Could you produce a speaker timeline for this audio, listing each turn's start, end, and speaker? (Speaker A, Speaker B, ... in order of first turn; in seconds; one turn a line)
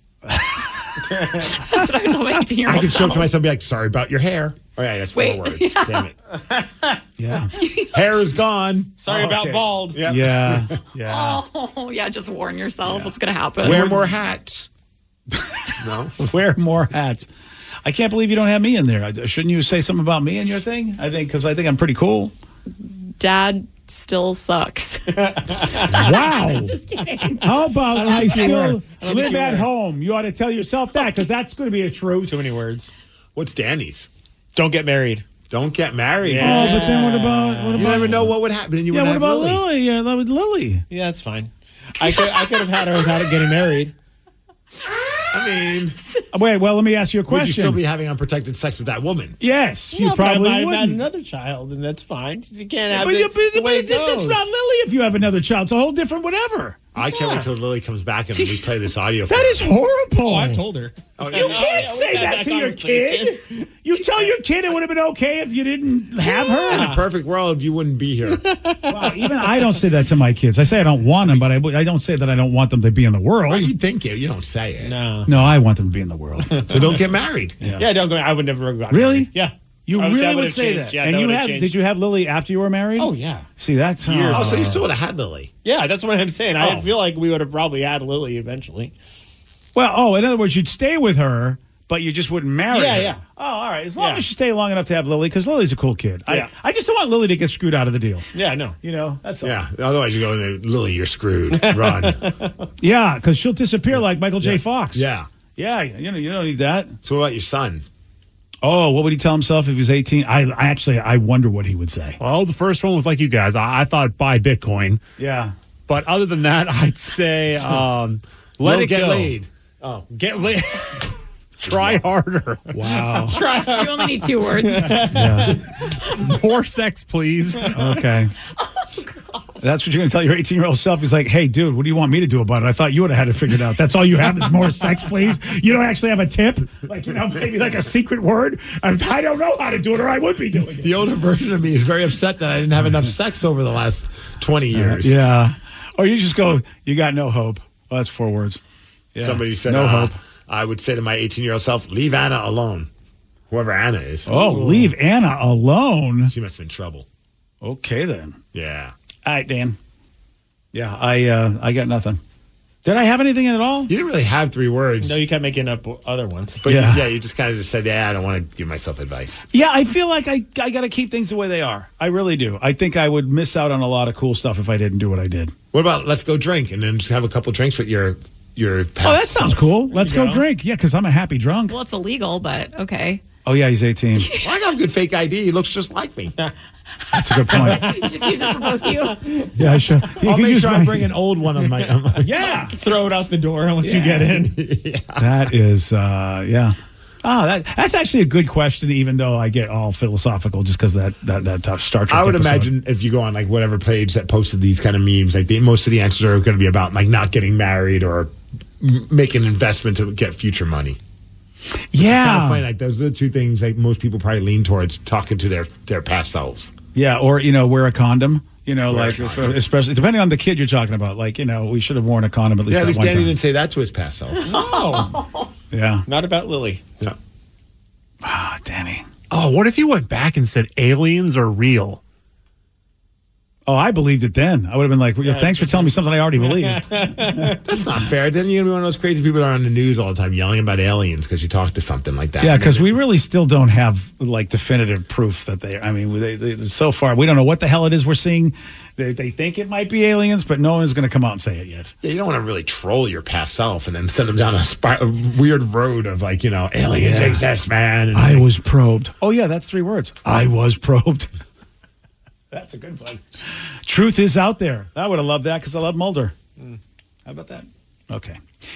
Speaker A: 0.3-0.9
Speaker B: 1.1-3.3
Speaker C: 1.1-1.4
Speaker D: 2.6-6.1
Speaker B: 5.1-6.0
Speaker C: 6.4-7.0
Speaker A: 7.2-7.5
Speaker B: 7.5-8.2
Speaker D: 7.9-9.0
Speaker C: 9.0-10.1
Speaker A: 9.1-11.4
Speaker D: 9.9-10.8
Speaker B: 11.0-13.9
Speaker A: 12.9-13.1
Speaker D: 13.6-14.7
Speaker A: 13.6-14.0
Speaker A: 15.4-15.7
Speaker D: 15.8-16.3
Speaker A: 16.2-17.3
Speaker A: 17.8-22.3
Speaker B: 22.8-29.5
Speaker C: 25.2-25.9
Speaker A: 25.9-26.7
Speaker A: 27.4-32.4
Speaker C: 27.9-29.7
Speaker C: 32.3-32.9
Speaker D: 33.4-34.1
Speaker C: 34.5-35.2
Speaker D: 35.5-37.0
Speaker C: 36.2-38.3
Speaker A: 36.4-38.4
Speaker D: 37.7-39.6
Speaker A: 38.9-40.8
Speaker C: 40.9-44.0
Speaker D: 45.3-46.0
Speaker A: 46.3-47.8
Speaker D: 47.3-49.4
Speaker A: 49.4-51.0
Speaker C: 49.9-54.5
Speaker A: 52.9-56.8
Speaker D: 57.0-59.6
Speaker C: 57.0-57.4
Speaker A: 59.3-60.6
Speaker C: 60.2-64.2
Speaker D: 61.2-61.9
Speaker A: 61.3-67.0
Speaker D: 66.7-68.5
Speaker C: 66.7-67.0
Speaker C: 68.6-69.1
Speaker A: 68.9-73.7
Speaker D: 73.5-75.0
Speaker C: 74.8-75.3
Speaker A: 75.3-76.6
Speaker C: 76.5-77.0
Speaker D: 76.6-77.6
Speaker A: 77.6-77.9
Speaker C: 77.7-81.8
Speaker A: 78.9-79.3
Speaker A: 79.9-84.8
Speaker C: 83.0-83.5
Speaker C: 84.0-84.8
Speaker D: 84.3-85.5
Speaker C: 85.6-89.0
Speaker D: 86.6-86.9
Speaker A: 89.7-98.3
Speaker C: 92.7-93.2
Speaker C: 94.0-94.2
Speaker C: 98.3-98.8
Speaker A: 98.8-99.5
Speaker D: 99.4-102.3
Speaker C: 101.5-102.5
Speaker A: 102.8-107.0
Speaker D: 103.9-105.3
Speaker D: 107.0-107.8
Speaker A: 108.6-112.2
Speaker E: 112.2-115.0
Speaker A: 115.2-115.5
Speaker E: 115.9-119.4
Speaker D: 118.6-120.1
Speaker E: 120.1-121.0
Speaker E: 121.6-122.8
Speaker D: 121.6-122.0
Speaker A: 122.7-123.4
Speaker C: 123.0-125.6
Speaker B: 123.4-125.1
Speaker A: 125.1-125.6
Speaker E: 126.1-127.7
Speaker A: 127.7-128.3
Speaker A: 129.6-141.0
Speaker D: 140.8-145.2
Speaker A: 144.7-148.6
Speaker A: 149.1-150.2
Speaker D: 149.2-152.9
Speaker D: 153.5-154.7
Speaker A: 154.3-156.3
Speaker C: 154.3-154.9
Speaker D: 156.3-157.1
Speaker A: 157.6-158.4
Speaker D: 158.5-158.9
Speaker A: 159.2-159.8
Speaker A: 160.7-162.2
Speaker A: 162.8-163.9
Speaker D: 163.9-165.2
Speaker C: 165.0-166.6
Speaker D: 166.6-169.4
Speaker A: 166.7-167.1
Speaker A: 169.5-175.5
Speaker D: 175.7-179.8
Speaker A: 179.0-181.7
Speaker C: 179.9-180.4
Speaker B: 181.7-183.2
Speaker A: 183.4-184.3
Speaker B: 184.2-184.6
Speaker D: 184.4-186.3
Speaker A: 187.1-187.9
Speaker C: 187.4-189.8
Speaker B: 187.5-189.3
Speaker A: 189.6-191.1
Speaker D: 190.2-192.3
Speaker A: 192.2-192.8
Speaker C: 192.7-194.6
Speaker A: 193.8-194.4
Speaker D: 194.3-195.3
Speaker A: 195.2-202.7
Speaker D: 202.1-211.0
Speaker A: 211.9-212.6
Speaker D: 211.9-216.7
Speaker A: 216.9-223.3
Speaker D: 218.9-219.6
Speaker D: 222.7-224.7
Speaker C: 224.4-225.5
Speaker A: 225.7-226.1
Speaker C: 226.1-226.8
Speaker A: 228.2-229.1
Speaker E: 229.3-232.0
Speaker A: 233.7-237.6
Speaker C: 235.2-237.6
Speaker D: 237.6-243.0
Speaker A: 242.4-251.9
Speaker D: 252.0-258.5
Speaker A: 256.9-257.4
Speaker A: 258.1-261.3
Speaker A: 262.5-263.2
Speaker A: 263.9-266.5
Speaker A: 267.3-268.4